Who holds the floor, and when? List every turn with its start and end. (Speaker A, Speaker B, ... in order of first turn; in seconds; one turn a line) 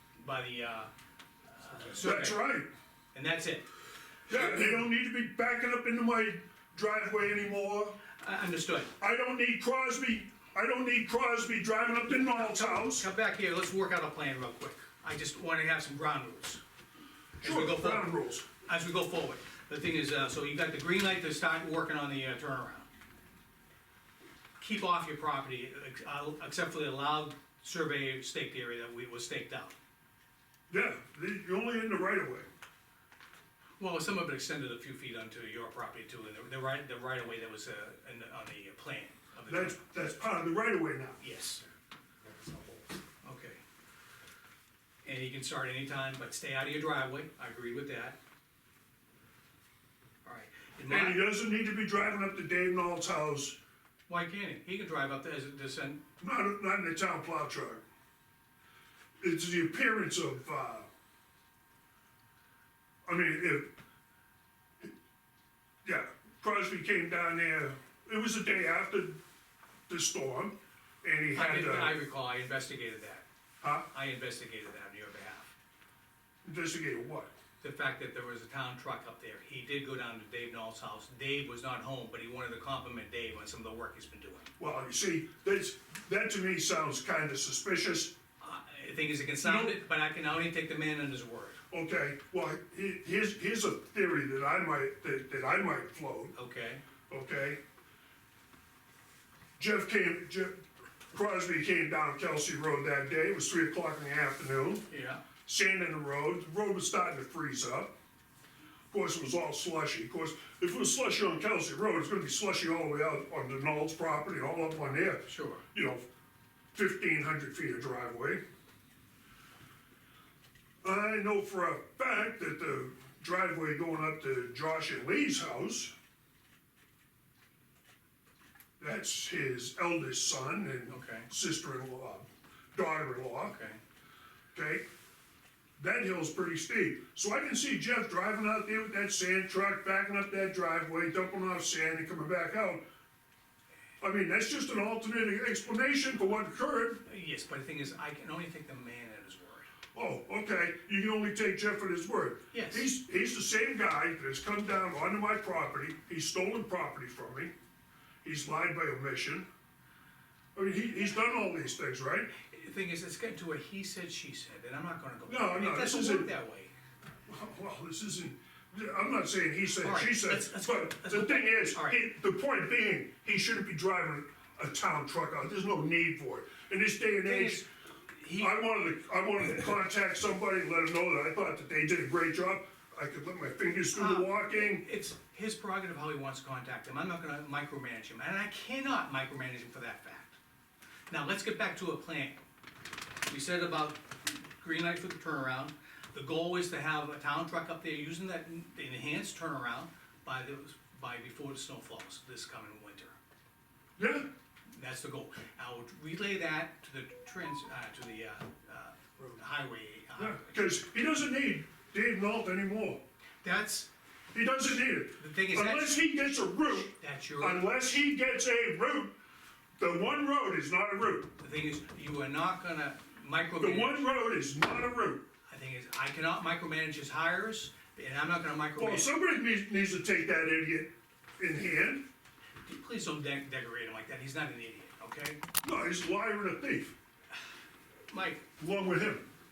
Speaker A: 0.2-0.9
Speaker A: 1.5-2.4
Speaker B: 2.0-2.7
Speaker A: 3.1-3.6
Speaker B: 4.3-8.0
Speaker A: 8.2-8.9
Speaker B: 9.0-13.1
Speaker A: 12.6-16.6
Speaker A: 17.4-22.9
Speaker B: 17.4-18.5
Speaker A: 24.6-29.8
Speaker B: 30.7-32.5
Speaker A: 33.8-39.8
Speaker B: 39.5-41.2
Speaker A: 41.2-41.6
Speaker A: 43.2-43.6
Speaker A: 45.0-48.2
Speaker A: 50.2-51.2
Speaker B: 50.9-53.6
Speaker A: 54.1-56.0
Speaker B: 56.2-57.8
Speaker B: 59.2-60.9
Speaker B: 63.1-63.7
Speaker B: 65.8-69.2
Speaker B: 69.9-72.0
Speaker A: 71.3-73.2
Speaker B: 73.6-73.9
Speaker A: 73.9-75.5
Speaker B: 76.4-77.3
Speaker A: 77.6-84.5
Speaker B: 84.6-88.2
Speaker A: 88.4-91.6
Speaker B: 89.4-89.8
Speaker B: 91.7-96.3
Speaker A: 96.3-96.8
Speaker B: 97.1-97.6
Speaker B: 99.6-100.6
Speaker B: 101.1-104.9
Speaker A: 104.9-105.2
Speaker B: 105.5-107.9
Speaker B: 108.9-116.0
Speaker A: 115.3-115.6
Speaker B: 116.7-118.4
Speaker B: 120.8-125.9
Speaker B: 128.8-133.5
Speaker A: 130.9-131.3
Speaker A: 133.4-133.8
Speaker B: 134.5-134.8
Speaker B: 135.8-142.8
Speaker B: 144.0-147.0
Speaker A: 147.1-149.7
Speaker B: 149.9-157.5
Speaker A: 152.5-152.9
Speaker B: 158.2-159.5
Speaker B: 160.6-162.3
Speaker A: 162.4-166.7
Speaker B: 165.3-166.3
Speaker B: 167.3-177.6
Speaker A: 169.8-172.0
Speaker A: 177.2-178.6
Speaker B: 178.4-184.8
Speaker A: 183.9-190.4
Speaker A: 191.1-192.4
Speaker A: 193.3-203.2
Speaker B: 204.0-204.3
Speaker A: 204.7-210.5
Speaker B: 210.2-213.0
Speaker A: 213.4-213.9
Speaker B: 214.3-219.2
Speaker A: 215.2-216.0
Speaker A: 216.7-217.7
Speaker B: 219.8-221.3
Speaker A: 221.4-224.1
Speaker B: 223.6-225.2
Speaker A: 225.5-229.1
Speaker B: 228.8-232.0
Speaker A: 232.6-235.4
Speaker B: 235.6-236.9
Speaker A: 238.1-238.4
Speaker B: 238.6-239.3